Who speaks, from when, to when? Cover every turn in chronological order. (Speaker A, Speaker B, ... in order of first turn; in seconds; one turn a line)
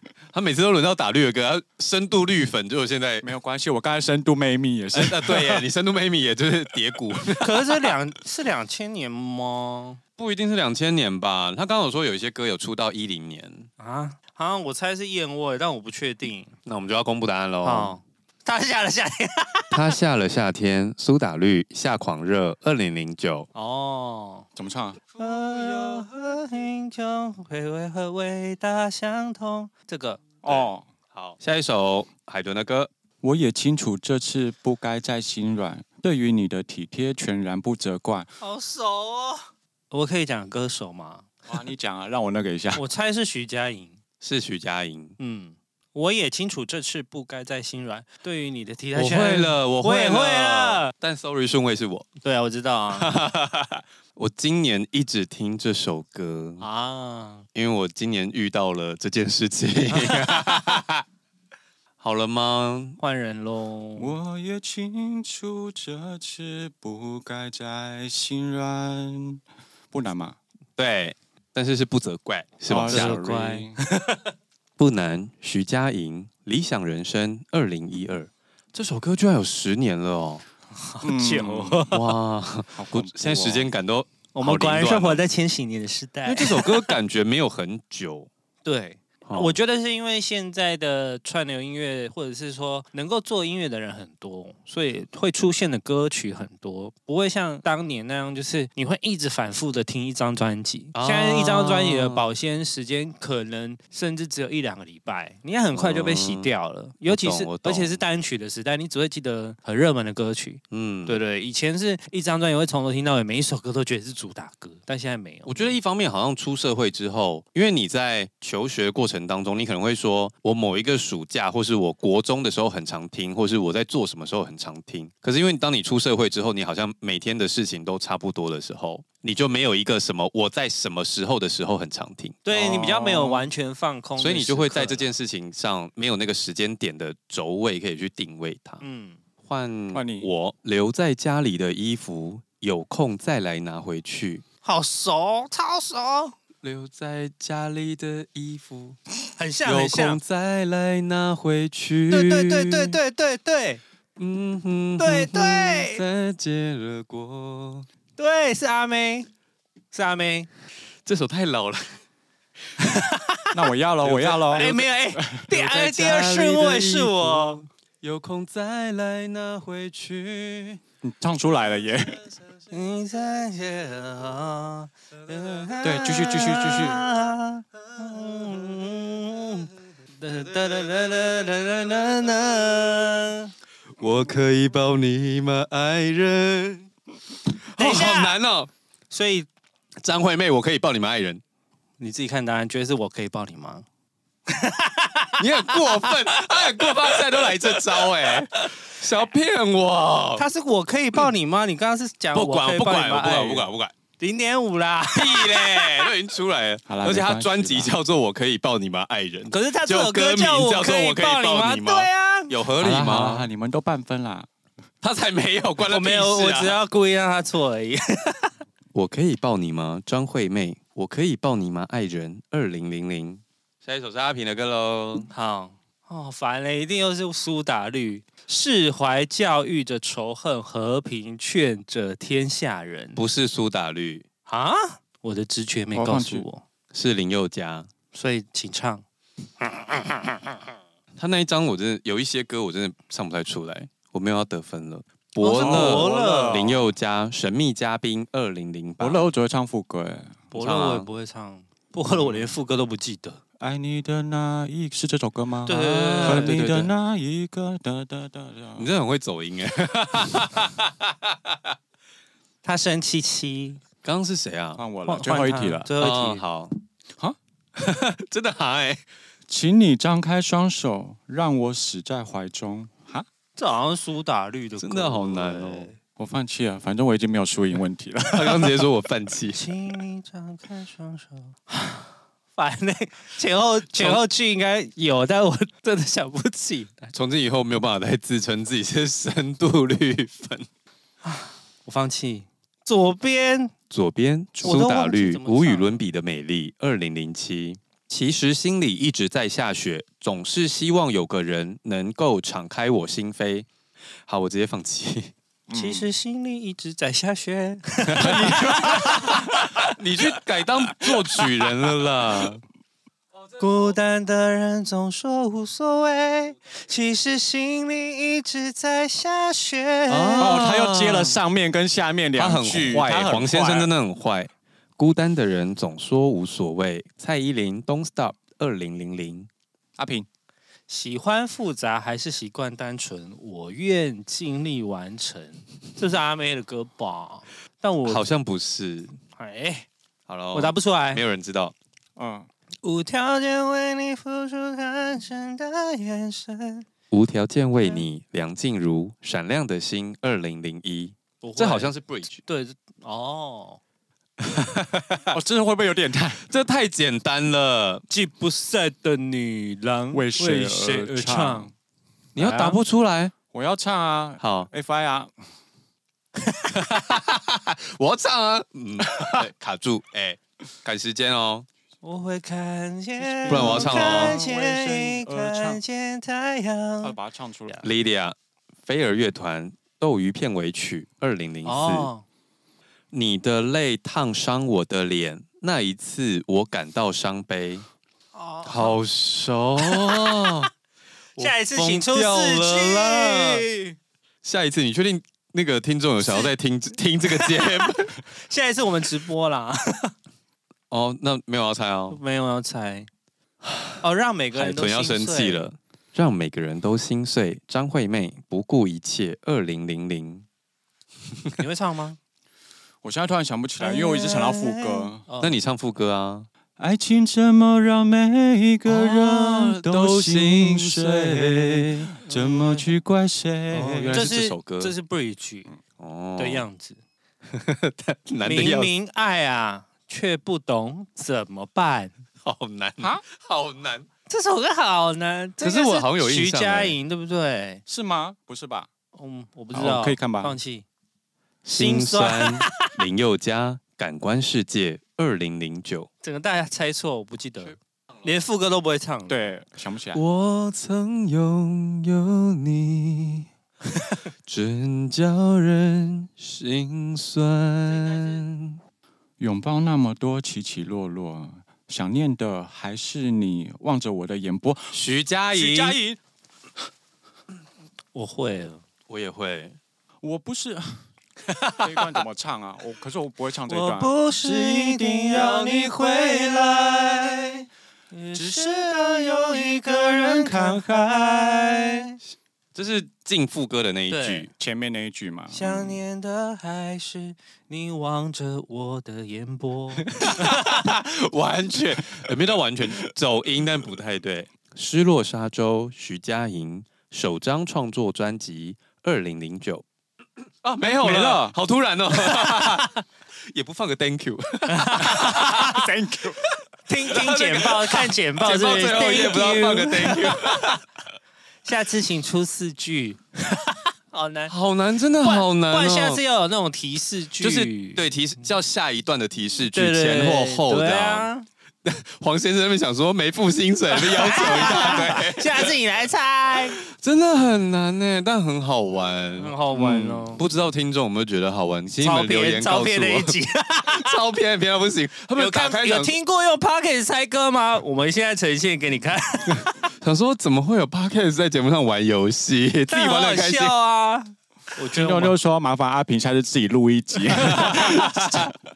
Speaker A: 0.3-3.3
Speaker B: 3.2-5.6
Speaker A: 4.9-7.9
Speaker C: 7.4-10.0
Speaker A: 10.2-13.7
Speaker C: 13.8-16.5
Speaker A: 16.6-17.9
Speaker C: 17.6-19.9
Speaker A: 19.7-23.5
Speaker C: 23.5-24.5
Speaker B: 24.6-25.0
Speaker C: 25.2-30.2
Speaker A: 25.2-26.1
Speaker B: 30.4-30.9
Speaker A: 30.4-32.9
Speaker B: 33.2-38.3
Speaker C: 38.4-41.3
Speaker B: 41.5-42.8
Speaker C: 42.8-44.0
Speaker A: 44.2-45.1
Speaker C: 45.2-50.9
Speaker A: 48.9-52.1
Speaker C: 52.2-53.1
Speaker A: 52.9-56.6
Speaker C: 56.6-57.4
Speaker A: 57.5-61.0
Speaker C: 59.9-60.8
Speaker A: 62.0-63.0
Speaker C: 63.0-64.2
Speaker B: 64.0-70.4
Speaker A: 70.8-73.3
Speaker B: 72.7-73.8
Speaker C: 72.9-74.3
Speaker A: 74.8-80.4
Speaker C: 80.8-82.1
Speaker B: 81.0-81.9
Speaker A: 81.9-85.2
Speaker B: 82.7-83.7
Speaker C: 84.3-86.9
Speaker A: 86.2-88.3
Speaker C: 88.6-115.7
Speaker A: 89.2-89.6
Speaker A: 100.9-102.2
Speaker A: 105.7-106.5
Speaker A: 107.1-108.0
Speaker A: 110.7-111.2
Speaker A: 115.5-132.4
Speaker C: 132.4-135.1
Speaker B: 132.5-133.5
Speaker A: 134.2-138.8
Speaker C: 138.8-139.2
Speaker A: 139.4-144.4
Speaker B: 139.9-140.3
Speaker C: 144.6-146.3
Speaker A: 146.6-149.0
Speaker C: 149.4-150.2
Speaker A: 149.6-153.0
Speaker C: 152.1-153.8
Speaker A: 154.2-157.9
Speaker C: 155.0-156.0
Speaker C: 158.2-159.3
Speaker C: 159.9-160.5
Speaker A: 161.0-162.0
Speaker C: 162.8-163.6
Speaker B: 163.5-165.5
Speaker A: 164.0-164.8
Speaker C: 164.5-167.6
Speaker A: 165.5-170.8
Speaker B: 171.0-172.2
Speaker A: 172.3-172.6
Speaker C: 172.7-183.5
Speaker A: 175.3-175.8
Speaker B: 175.8-177.0
Speaker A: 184.0-186.9
Speaker A: 187.5-188.7
Speaker C: 187.8-188.4
Speaker C: 189.1-189.5
Speaker A: 190.0-191.4
Speaker C: 192.0-193.8
Speaker C: 194.5-198.0
Speaker A: 195.4-200.4
Speaker C: 200.4-203.7
Speaker A: 202.3-203.9
Speaker C: 204.2-206.1
Speaker A: 205.1-213.5
Speaker B: 206.9-207.9
Speaker C: 209.5-212.5
Speaker B: 212.8-214.5
Speaker A: 215.0-216.8
Speaker C: 215.8-218.5
Speaker A: 218.9-225.3
Speaker C: 225.3-233.2
Speaker A: 233.2-234.2
Speaker C: 234.5-236.6
Speaker B: 235.9-236.4
Speaker A: 236.9-237.9
Speaker C: 238.1-239.0
Speaker A: 241.2-249.3
Speaker C: 245.4-246.8
Speaker B: 245.5-246.8
Speaker B: 249.0-250.4
Speaker C: 250.5-253.4
Speaker A: 250.5-251.1
Speaker B: 253.6-258.9
Speaker C: 255.7-256.6
Speaker A: 255.7-256.9
Speaker A: 258.8-261.7
Speaker C: 262.6-263.8
Speaker A: 264.0-264.8
Speaker B: 264.8-265.9
Speaker C: 265.1-266.4
Speaker A: 266.0-266.7
Speaker A: 267.8-269.0
Speaker B: 269.5-273.3
Speaker C: 273.6-275.9
Speaker A: 274.8-275.9
Speaker B: 276.2-278.9
Speaker A: 278.3-279.7
Speaker C: 279.5-287.1
Speaker A: 283.9-284.2
Speaker A: 287.1-290.7
Speaker C: 291.2-293.7
Speaker A: 293.9-303.7
Speaker B: 294.5-294.9
Speaker C: 294.6-296.0
Speaker A: 304.3-305.3
Speaker B: 305.7-306.1
Speaker C: 305.7-309.4
Speaker B: 308.1-309.6
Speaker A: 309.2-312.6
Speaker B: 311.0-312.5
Speaker C: 313.6-320.7
Speaker A: 320.1-321.4
Speaker B: 320.4-323.9
Speaker A: 322.4-329.5
Speaker B: 330.0-330.3
Speaker C: 330.9-338.3
Speaker A: 338.0-339.1
Speaker C: 339.3-339.9
Speaker A: 340.3-341.7
Speaker C: 340.5-341.2
Speaker B: 342.2-342.5
Speaker C: 342.8-346.9
Speaker A: 347.1-352.4
Speaker C: 351.4-353.8
Speaker A: 354.4-355.2
Speaker B: 355.3-356.4
Speaker A: 356.5-358.0
Speaker C: 358.1-361.7
Speaker B: 360.1-361.7
Speaker A: 362.3-363.3
Speaker C: 362.4-362.8
Speaker B: 363.5-365.3
Speaker A: 364.4-364.7
Speaker A: 366.7-371.6
Speaker B: 369.0-369.4
Speaker C: 372.0-377.1
Speaker B: 373.2-375.8
Speaker A: 373.5-374.4
Speaker B: 377.0-377.8
Speaker A: 377.8-378.3
Speaker A: 378.9-382.1
Speaker C: 381.6-382.2
Speaker A: 383.1-387.8
Speaker C: 388.3-389.0
Speaker A: 388.6-390.7
Speaker C: 389.8-390.5
Speaker A: 391.4-393.7
Speaker C: 391.4-393.9
Speaker A: 394.4-398.2
Speaker C: 396.2-396.5
Speaker C: 397.3-400.1
Speaker A: 400.9-402.2
Speaker C: 402.1-403.1
Speaker A: 403.6-404.0
Speaker C: 404.0-405.6
Speaker A: 404.5-410.4
Speaker C: 411.6-412.2
Speaker B: 413.0-415.2
Speaker C: 413.8-415.6
Speaker A: 415.4-416.5
Speaker B: 416.8-424.2
Speaker A: 418.9-422.1
Speaker C: 422.2-422.8
Speaker A: 423.8-424.9
Speaker C: 424.1-425.7
Speaker A: 426.0-426.6
Speaker C: 426.4-427.0
Speaker A: 427.5-428.9
Speaker C: 428.4-432.1
Speaker A: 432.4-434.1
Speaker C: 434.3-437.8
Speaker A: 435.6-436.9
Speaker B: 437.9-438.9
Speaker C: 439.1-440.8
Speaker B: 439.7-440.6
Speaker A: 441.6-446.1
Speaker C: 441.7-443.0
Speaker C: 446.2-449.4
Speaker B: 449.3-450.2
Speaker A: 450.1-453.5
Speaker A: 454.4-458.8
Speaker B: 459.4-464.9
Speaker A: 464.9-466.0
Speaker B: 465.5-466.2
Speaker C: 468.1-468.8
Speaker A: 469.1-469.8
Speaker B: 470.2-471.0
Speaker C: 471.5-472.2
Speaker B: 471.8-477.3
Speaker C: 473.7-482.1
Speaker B: 478.3-479.1
Speaker B: 480.1-482.0
Speaker A: 482.7-484.5
Speaker C: 484.1-484.5
Speaker B: 484.6-486.0
Speaker C: 485.5-490.7
Speaker A: 490.2-499.8
Speaker A: 500.6-503.0
Speaker B: 501.0-501.6
Speaker A: 503.5-505.8
Speaker C: 504.7-505.6
Speaker B: 505.1-506.4
Speaker C: 506.9-510.3
Speaker A: 507.1-510.8
Speaker C: 511.6-514.5
Speaker A: 514.5-516.2
Speaker C: 515.2-518.1
Speaker A: 517.4-521.3
Speaker C: 519.7-521.5
Speaker A: 521.8-525.7
Speaker C: 523.9-526.8
Speaker A: 526.9-529.5
Speaker C: 529.4-530.4
Speaker B: 529.7-530.3
Speaker A: 530.4-536.1
Speaker C: 532.0-534.1
Speaker C: 535.3-539.8
Speaker A: 540.0-543.7
Speaker C: 542.9-545.4
Speaker B: 544.9-548.5
Speaker A: 547.3-548.5
Speaker C: 547.5-548.0